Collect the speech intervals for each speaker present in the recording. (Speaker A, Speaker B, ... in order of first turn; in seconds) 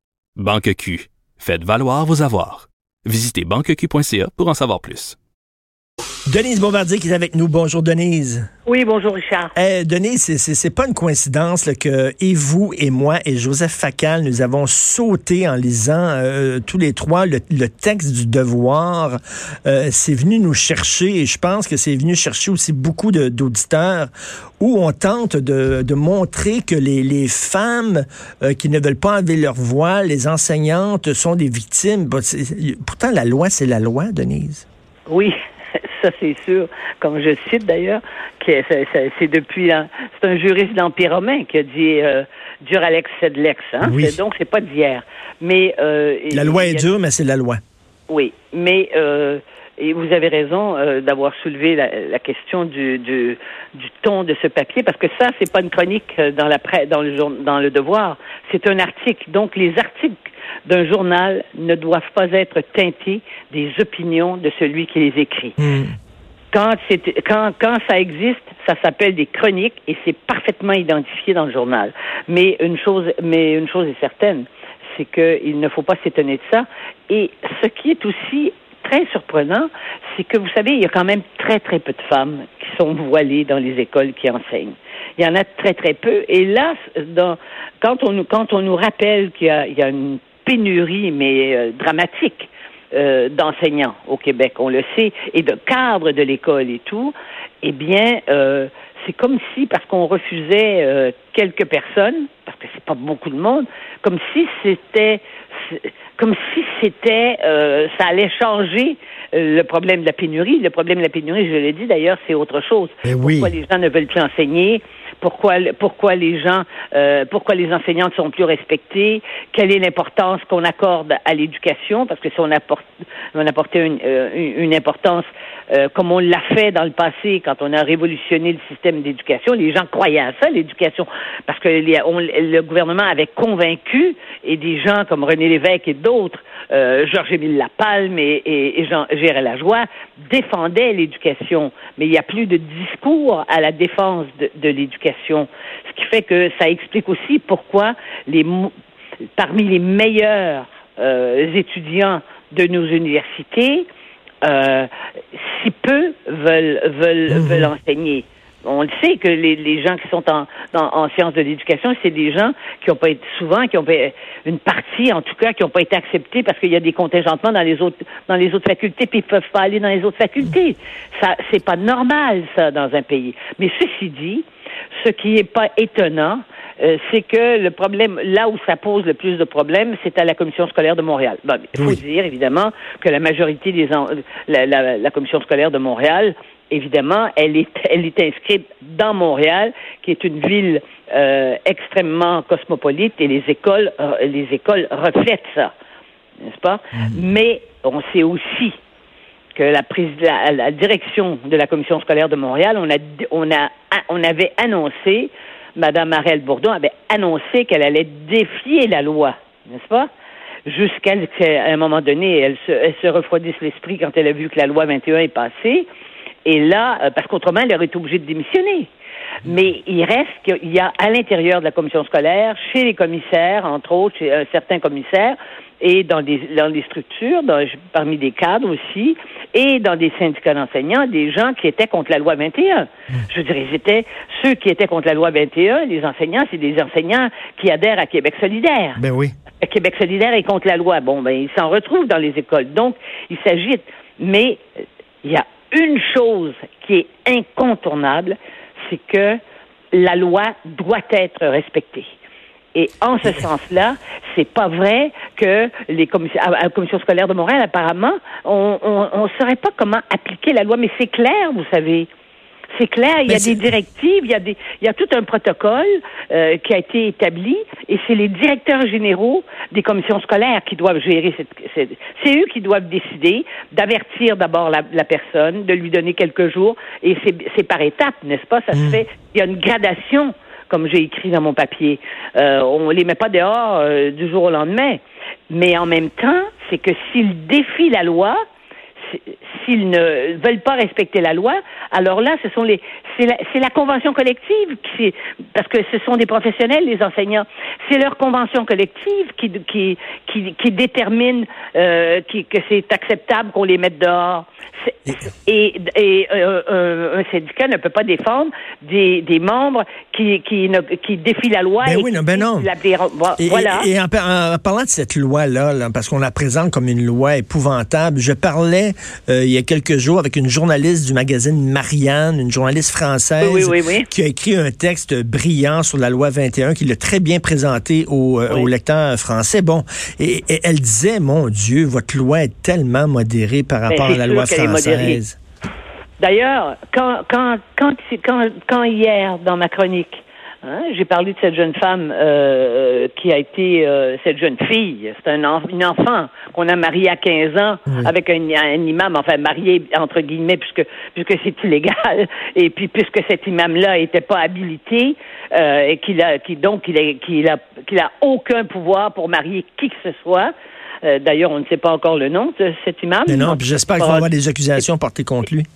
Speaker A: 0.4-5.2
Speaker B: 6.3-8.5, 9.6-34.7, 43.8-44.2, 46.3-47.6, 65.6-65.9, 113.0-113.5, 157.3-157.7, 239.0-239.3, 263.3-263.6, 278.7-279.0, 311.8-312.7, 313.4-335.4, 363.3-365.7
Speaker C: 8.7-9.6, 35.1-46.9, 48.1-65.6, 66.5-148.7, 149.4-153.9, 154.4-174.4, 175.0-195.7, 196.4-198.8, 199.6-210.1, 210.7-215.9, 216.4-218.9, 219.4-239.0, 239.6-244.6, 245.2-249.4, 249.9-252.1, 252.7-262.1, 262.8-288.4, 289.1-313.9, 323.4-324.1, 333.9-335.2, 336.2-360.5, 361.0-364.8